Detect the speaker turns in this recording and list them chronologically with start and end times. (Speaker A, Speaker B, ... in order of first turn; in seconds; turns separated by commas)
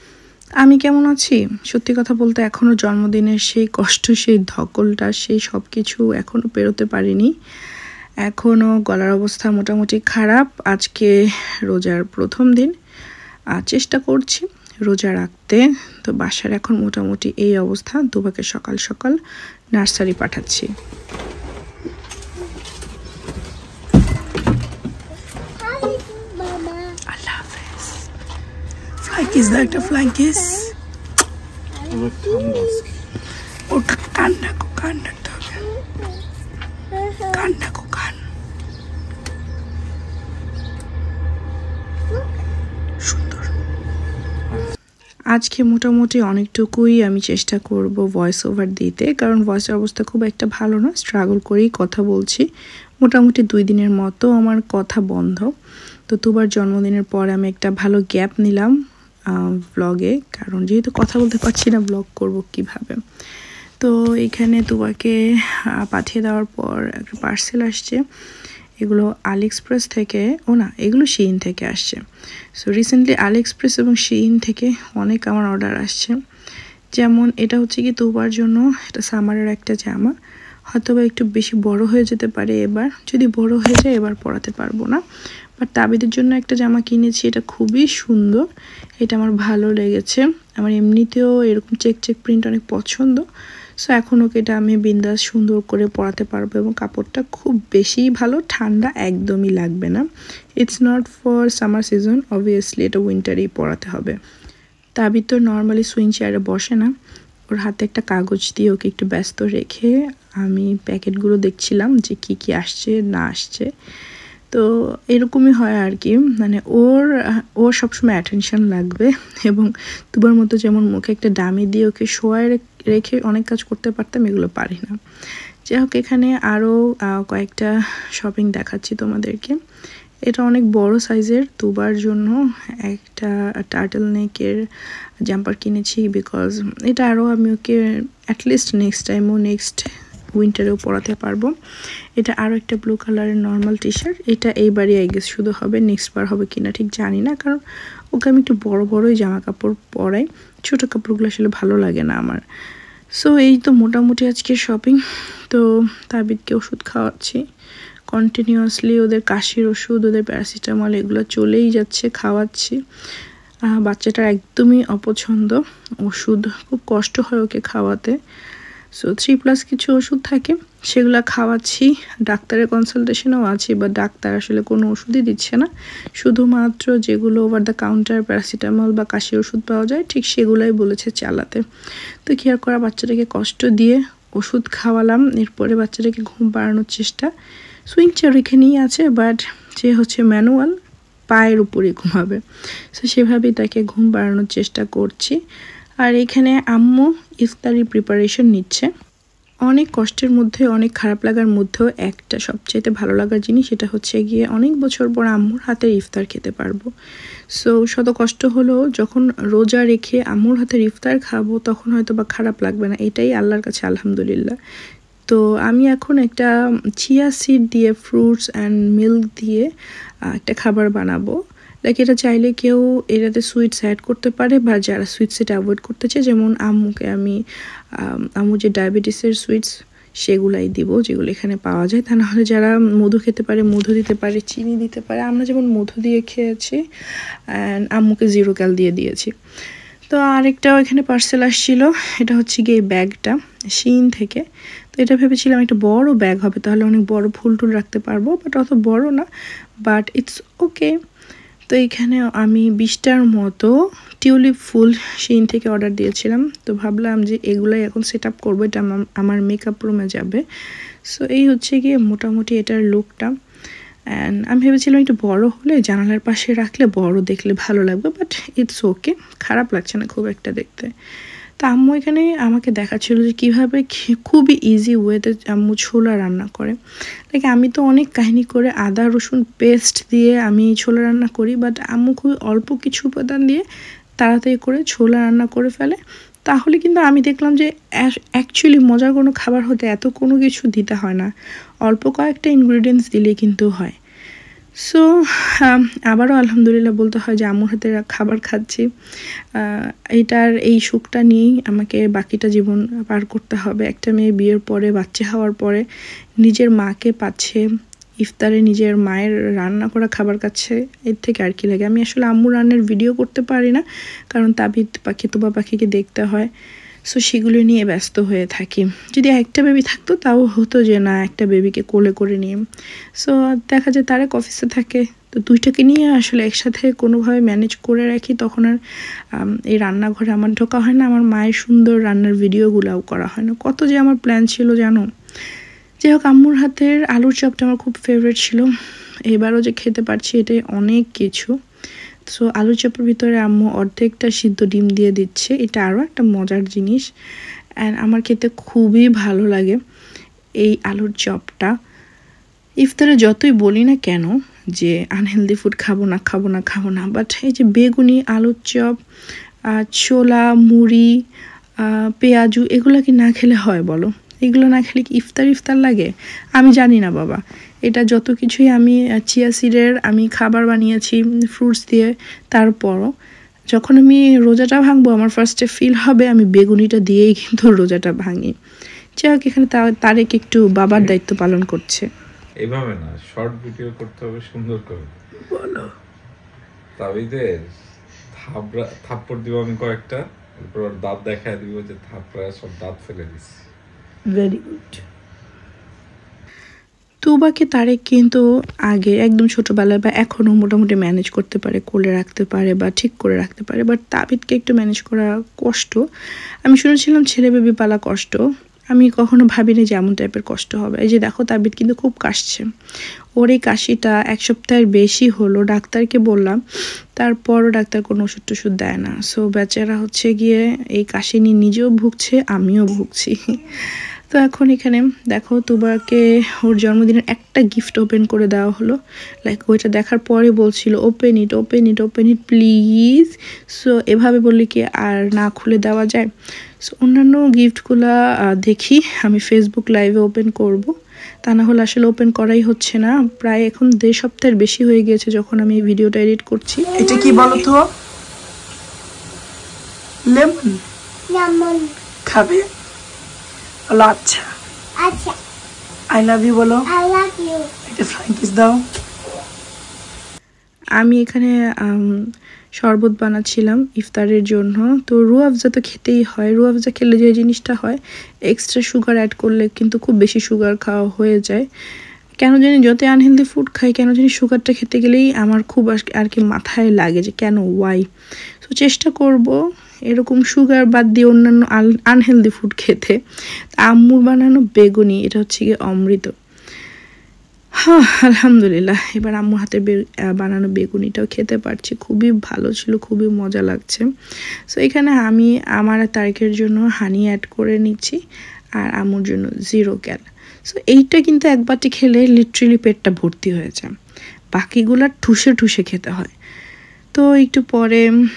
Speaker A: 0.6-7.3, Speaker A: 8.2-11.1, Speaker A: 11.7-12.7, Speaker A: 13.5-19.2, Speaker A: 19.7-20.7, Speaker B: 25.6-27.0, Speaker A: 27.1-28.0, Speaker A: 29.0-30.7, Speaker B: 29.4-30.6, Speaker B: 31.7-32.9, Speaker C: 31.9-32.9, Speaker A: 33.7-35.5, Speaker B: 37.0-37.4, Speaker A: 37.3-38.2, Speaker A: 43.1-43.5, Speaker A: 45.3-52.4, Speaker A: 53.0-55.5, Speaker A: 56.1-58.7, Speaker A: 59.3-63.0, Speaker A: 63.8-68.0, Speaker A: 68.8-72.0, Speaker A: 72.5-76.2, Speaker A: 77.0-80.1, Speaker A: 80.7-85.0, Speaker A: 85.6-88.4, Speaker A: 89.0-93.2, Speaker A: 93.8-100.0, Speaker A: 100.6-104.2, Speaker A: 105.0-106.9, Speaker A: 107.5-113.7, Speaker A: 114.5-125.0, Speaker A: 125.7-129.6, Speaker A: 130.2-134.6, Speaker A: 135.2-141.5, Speaker A: 142.2-147.6, Speaker A: 148.1-152.4, Speaker A: 153.1-157.4, Speaker A: 158.1-162.8, Speaker A: 163.7-168.2, Speaker A: 169.0-181.6, Speaker A: 182.2-187.3, Speaker A: 187.9-190.8, Speaker A: 191.3-192.4, Speaker A: 192.9-195.4, Speaker A: 196.0-198.9, Speaker A: 199.7-206.9, Speaker A: 207.5-214.6, Speaker A: 215.3-219.7, Speaker A: 220.3-221.3, Speaker A: 221.8-227.4, Speaker A: 228.0-236.8, Speaker A: 237.5-239.3, Speaker A: 240.1-249.2, Speaker A: 249.8-250.9, Speaker A: 251.7-260.4, Speaker A: 261.1-263.3, Speaker A: 264.1-270.9, Speaker A: 271.6-276.8, Speaker A: 277.3-283.6, Speaker A: 284.2-291.3, Speaker A: 291.9-294.0, Speaker A: 294.8-298.9, Speaker A: 299.6-305.9, Speaker A: 306.4-307.6, Speaker A: 308.2-316.5, Speaker A: 317.1-322.6, Speaker A: 323.2-328.8, Speaker A: 329.3-335.1, Speaker A: 336.0-338.7, Speaker A: 339.3-341.5, Speaker A: 342.3-347.1, Speaker A: 347.8-349.8, Speaker A: 350.6-351.7, Speaker A: 352.8-359.0, Speaker A: 359.7-361.1, Speaker A: 361.8-373.1, Speaker A: 373.7-378.5, Speaker A: 379.2-382.1, Speaker C: 382.6-385.2, Speaker A: 385.5-385.9, Speaker C: 387.0-387.7, Speaker C: 388.4-393.5, Speaker A: 394.3-394.9, Speaker A: 397.2-406.0, Speaker A: 406.6-408.4, Speaker A: 408.9-412.6, Speaker A: 413.4-416.6, Speaker A: 417.1-436.3, Speaker A: 436.8-447.8, Speaker B: 446.9-447.5, Speaker A: 450.3-450.7, Speaker B: 451.3-451.9, Speaker A: 452.3-452.6, Speaker A: 453.9-454.5, Speaker B: 455.0-455.4, Speaker A: 456.1-456.8, Speaker B: 456.9-457.7, Speaker A: 457.9-458.8, Speaker A: 461.0-462.2, Speaker A: 462.8-471.6, Speaker A: 472.4-478.1, Speaker A: 478.6-479.6, Speaker A: 480.1-483.2, Speaker A: 483.8-486.3, Speaker A: 487.8-494.1, Speaker A: 494.7-498.2, Speaker A: 498.8-503.9, Speaker A: 504.6-506.3, Speaker A: 507.1-508.0